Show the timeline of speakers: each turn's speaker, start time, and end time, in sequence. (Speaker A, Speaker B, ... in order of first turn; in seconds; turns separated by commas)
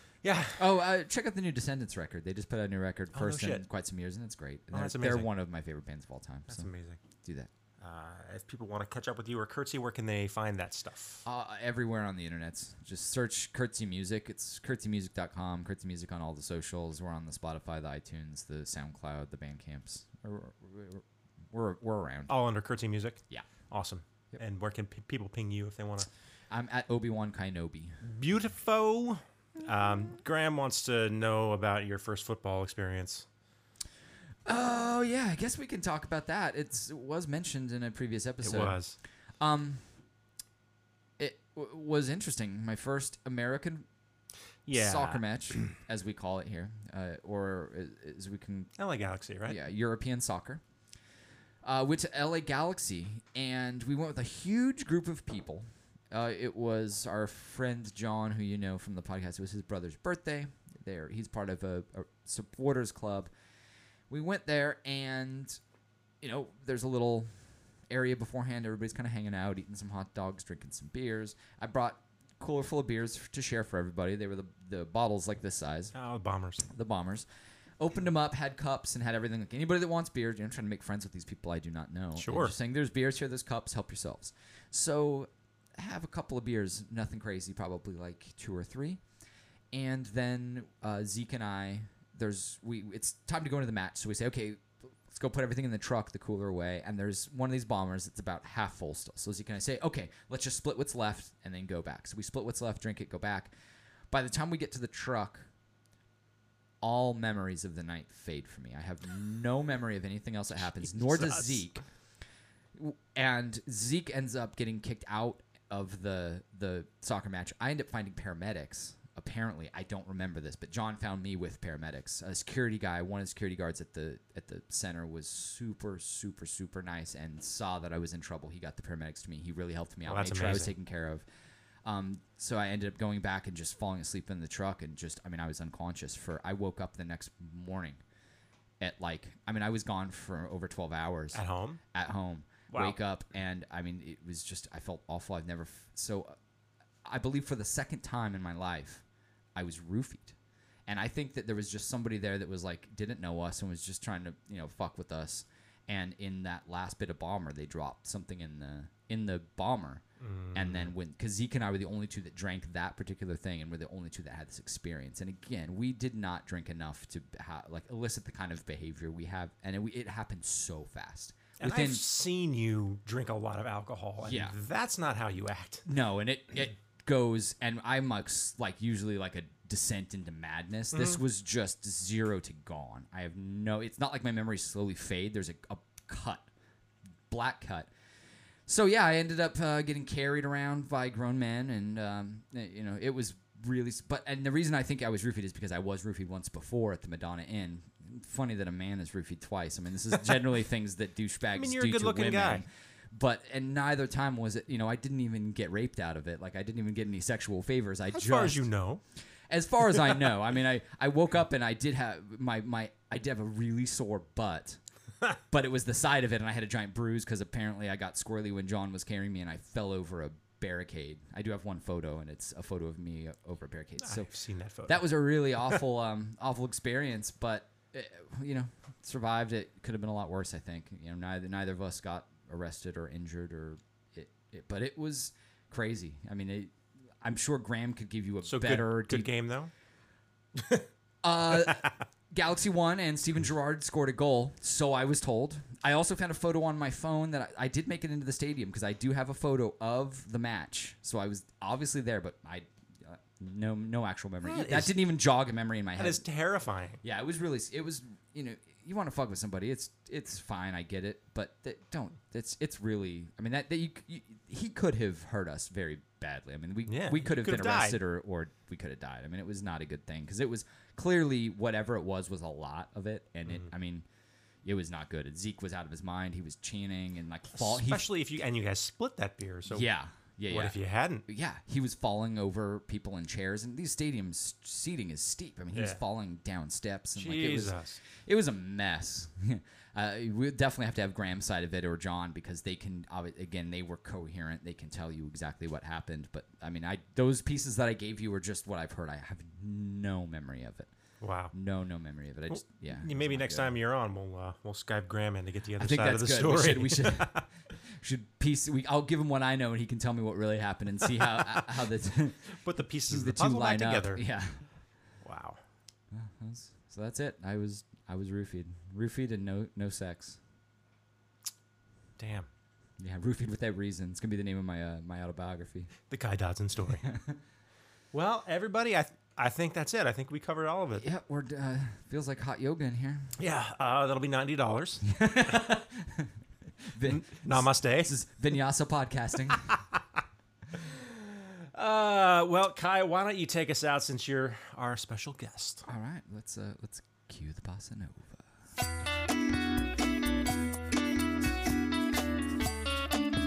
Speaker A: 0.2-0.6, Speaker B: 0.6-6.7, Speaker A: 3.1-3.7, Speaker A: 4.7-5.3, Speaker A: 6.5-7.0, Speaker B: 7.2-7.5, Speaker A: 7.8-11.2, Speaker B: 11.2-22.3, Speaker A: 22.3-26.1, Speaker B: 26.5-28.0, Speaker A: 28.0-33.2, Speaker B: 34.5-38.8, Speaker A: 38.4-39.0, Speaker B: 39.4-39.8, Speaker B: 41.2-43.9, Speaker A: 44.6-45.7, Speaker B: 44.7-48.7, Speaker A: 48.8-49.6, Speaker B: 49.4-50.6, Speaker B: 51.6-63.3, Speaker B: 64.1-65.6, Speaker B: 66.2-67.3, Speaker B: 67.9-75.9, Speaker A: 75.9-76.7, Speaker B: 76.7-77.2, Speaker B: 77.8-89.0, Speaker A: 82.2-82.5, Speaker B: 89.7-103.5, Speaker B: 104.1-105.5, Speaker B: 106.8-111.8, Speaker A: 110.8-111.7, Speaker B: 112.7-131.2, Speaker A: 130.1-130.7, Speaker B: 131.8-138.0, Speaker B: 138.8-141.4, Speaker A: 141.3-141.8, Speaker B: 141.9-146.3, Speaker A: 142.7-143.0, Speaker B: 147.0-149.0, Speaker B: 149.5-150.3, Speaker B: 150.9-172.0, Speaker A: 160.2-160.9, Speaker A: 171.6-175.8, Speaker B: 174.2-174.5, Speaker B: 175.9-186.5, Speaker A: 180.9-181.2, Speaker B: 187.3-187.9, Speaker B: 188.7-208.7, Speaker A: 201.5-202.6, Speaker A: 208.1-209.0, Speaker B: 209.5-214.8, Speaker B: 215.3-224.3, Speaker A: 224.0-225.1, Speaker B: 224.8-239.3, Speaker A: 238.4-239.7, Speaker A: 240.6-240.8, Speaker B: 241.2-256.2, Speaker A: 241.6-241.9, Speaker A: 254.4-255.1, Speaker A: 256.0-257.0, Speaker B: 257.0-274.0, Speaker A: 266.9-268.0, Speaker B: 274.6-278.1, Speaker A: 277.5-279.9, Speaker B: 279.7-300.9, Speaker A: 280.5-281.2, Speaker A: 285.7-286.0, Speaker A: 287.1-288.0, Speaker A: 301.2-301.5, Speaker B: 301.5-303.8, Speaker A: 302.5-307.5, Speaker B: 305.8-312.5, Speaker A: 311.3-311.6, Speaker A: 312.5-314.2, Speaker B: 313.1-314.7, Speaker A: 315.2-315.6, Speaker B: 316.1-320.4, Speaker A: 322.2-322.5, Speaker B: 323.0-325.9, Speaker A: 326.1-327.1, Speaker B: 327.0-327.4, Speaker A: 328.1-331.1, Speaker B: 331.0-333.3, Speaker A: 333.4-335.0, Speaker B: 335.0-336.3, Speaker B: 336.8-339.7, Speaker A: 337.0-338.1, Speaker A: 340.8-345.8, Speaker B: 345.8-348.4